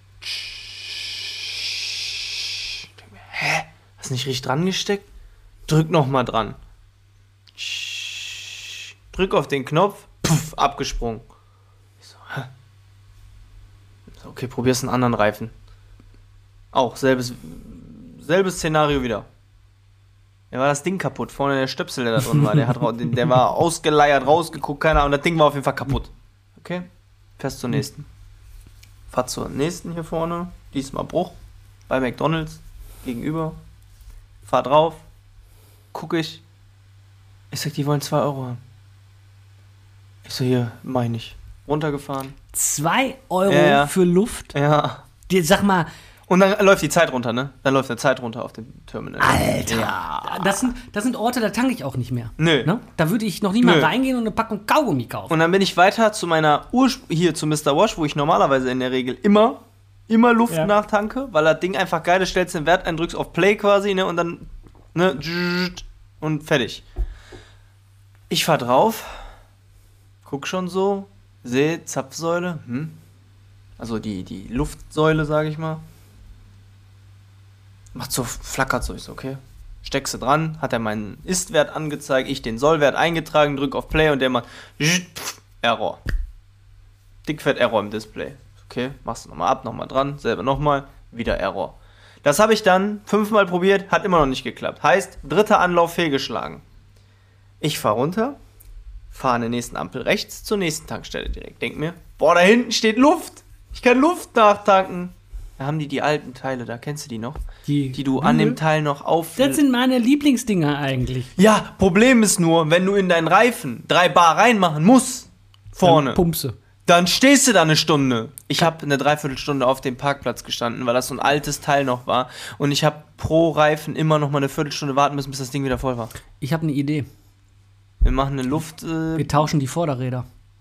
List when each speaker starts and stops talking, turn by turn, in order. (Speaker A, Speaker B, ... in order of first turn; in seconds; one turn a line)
Speaker A: 0.2-5.0
Speaker A: 5.7-6.6
Speaker A: 7.6-11.2
Speaker A: 12.0-12.5
Speaker A: 14.2-15.5
Speaker A: 16.7-19.2
Speaker A: 20.5-26.9
Speaker A: 27.4-28.1
Speaker A: 29.1-31.4
Speaker A: 31.9-33.6
Speaker A: 34.4-35.0
Speaker A: 35.9-36.4
Speaker A: 37.5-38.6
Speaker A: 40.2-42.3
Speaker B: 42.5-44.5
Speaker A: 43.5-43.9
Speaker A: 44.5-45.0
Speaker B: 45.3-45.9
Speaker A: 46.3-50.5
Speaker B: 49.2-55.3
Speaker A: 52.4-52.7
Speaker A: 53.6-53.9
Speaker A: 55.3-66.8
Speaker A: 68.3-69.2
Speaker A: 70.2-73.0
Speaker A: 73.8-75.8
Speaker A: 77.9-86.0
Speaker A: 87.2-96.6
Speaker A: 97.6-98.4
Speaker A: 99.1-107.4
Speaker B: 107.7-108.6
Speaker A: 107.9-109.6
Speaker B: 109.3-111.3
Speaker A: 111.4-116.2
Speaker B: 115.8-116.5
Speaker A: 116.8-126.1
Speaker B: 126.4-127.1
Speaker A: 128.0-129.5
Speaker B: 129.2-130.2